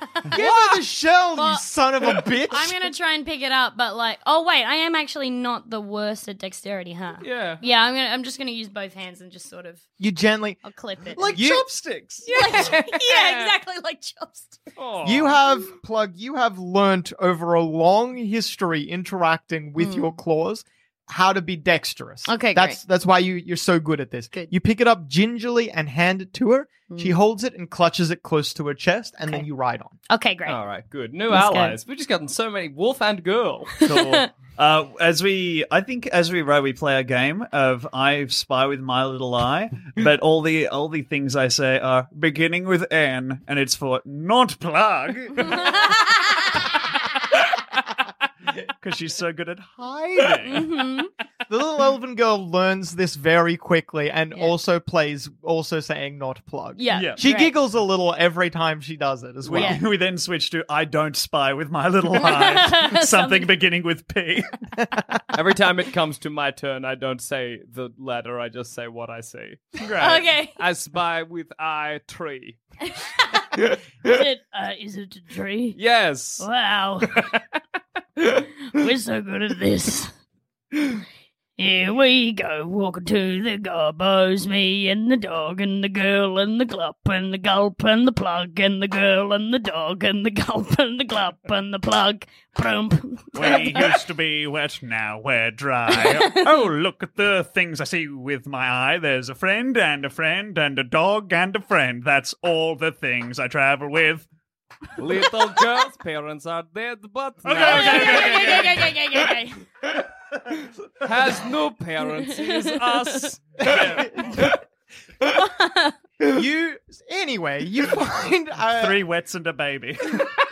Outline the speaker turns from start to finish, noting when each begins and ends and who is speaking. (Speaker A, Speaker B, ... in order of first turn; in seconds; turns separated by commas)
Speaker A: 0.3-2.8, Speaker B: 0.4-0.8, Speaker C: 1.4-1.6, Speaker C: 2.5-9.8, Speaker B: 7.2-7.6, Speaker A: 10.0-10.6, Speaker C: 10.6-11.4, Speaker D: 11.2-12.3, Speaker A: 11.3-11.7, Speaker C: 12.3-14.6, Speaker B: 12.3-13.5, Speaker B: 14.8-15.4, Speaker A: 15.0-30.0, Speaker C: 19.8-20.2, Speaker C: 22.3-22.8, Speaker C: 26.9-27.1, Speaker C: 30.1-30.6, Speaker B: 30.5-34.2, Speaker C: 31.3-31.8, Speaker D: 33.9-46.2, Speaker D: 48.6-50.8, Speaker C: 50.5-51.1, Speaker A: 51.5-59.8, Speaker C: 56.8-57.5, Speaker D: 56.9-57.2, Speaker D: 59.4-64.6, Speaker C: 62.1-63.5, Speaker B: 65.3-69.8, Speaker D: 69.8-70.2, Speaker C: 70.0-70.6, Speaker B: 70.6-72.6, Speaker E: 74.1-75.8, Speaker B: 75.8-76.5, Speaker E: 76.4-77.2, Speaker B: 77.1-77.4, Speaker E: 78.7-80.1, Speaker E: 81.6-93.8, Speaker D: 93.3-104.3, Speaker B: 105.0-108.6, Speaker D: 107.5-109.0, Speaker C: 107.6-109.6, Speaker B: 111.0-114.3, Speaker A: 113.6-114.5, Speaker D: 113.7-114.1, Speaker C: 115.4-115.9, Speaker A: 116.2-119.0, Speaker D: 118.8-120.4